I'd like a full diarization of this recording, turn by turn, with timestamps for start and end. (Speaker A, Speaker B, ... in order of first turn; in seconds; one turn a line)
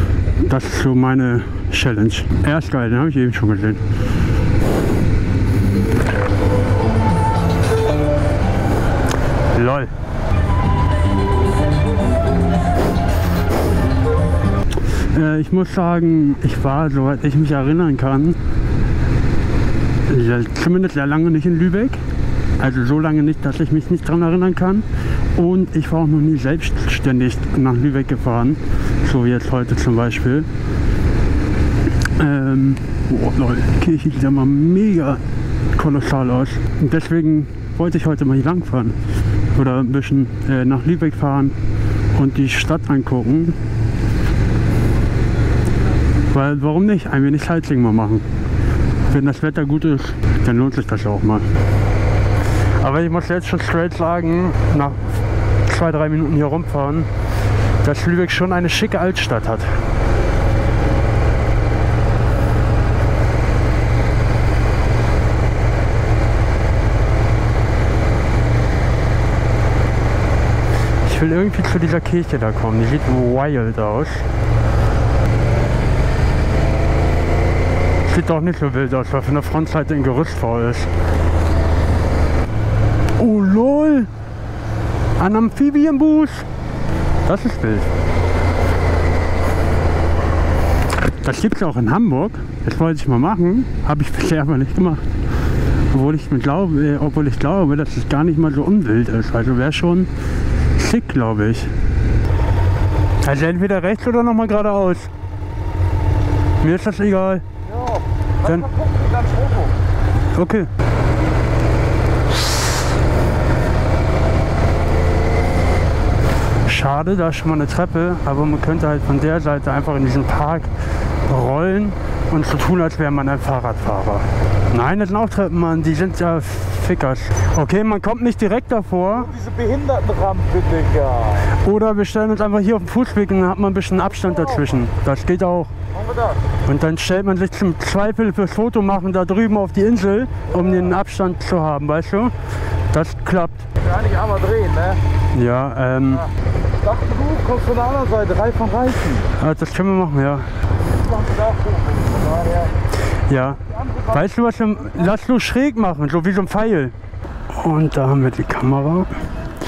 Speaker A: 0.4-3.8
Speaker A: 9.5-9.9
Speaker A: 14.9-18.4
Speaker A: 20.1-22.0
Speaker A: 22.6-30.5
Speaker A: 32.1-35.2
Speaker A: 35.7-39.0
Speaker A: 39.5-41.5
Speaker A: 42.1-43.6
Speaker A: 46.3-48.2
Speaker A: 49.1-51.5
Speaker A: 52.8-57.1
Speaker A: 57.8-59.8
Speaker A: 71.0-74.3
Speaker A: 78.0-80.9
Speaker A: 83.2-84.1
Speaker A: 85.2-86.5
Speaker A: 87.2-87.9
Speaker A: 91.2-95.0
Speaker A: 95.9-100.1
Speaker A: 100.7-101.7
Speaker A: 103.2-105.1
Speaker A: 106.6-107.4
Speaker B: 107.7-109.7
Speaker A: 108.4-108.7
Speaker A: 110.3-110.7
Speaker A: 116.6-120.7
Speaker A: 121.2-129.3
Speaker B: 129.2-131.5
Speaker A: 131.4-135.7
Speaker B: 135.9-136.4
Speaker A: 136.6-142.3
Speaker A: 142.9-143.7
Speaker B: 143.8-145.0
Speaker A: 145.3-146.3
Speaker B: 146.8-149.3
Speaker A: 149.3-150.5
Speaker B: 151.0-152.7
Speaker A: 153.1-156.9
Speaker A: 157.5-159.2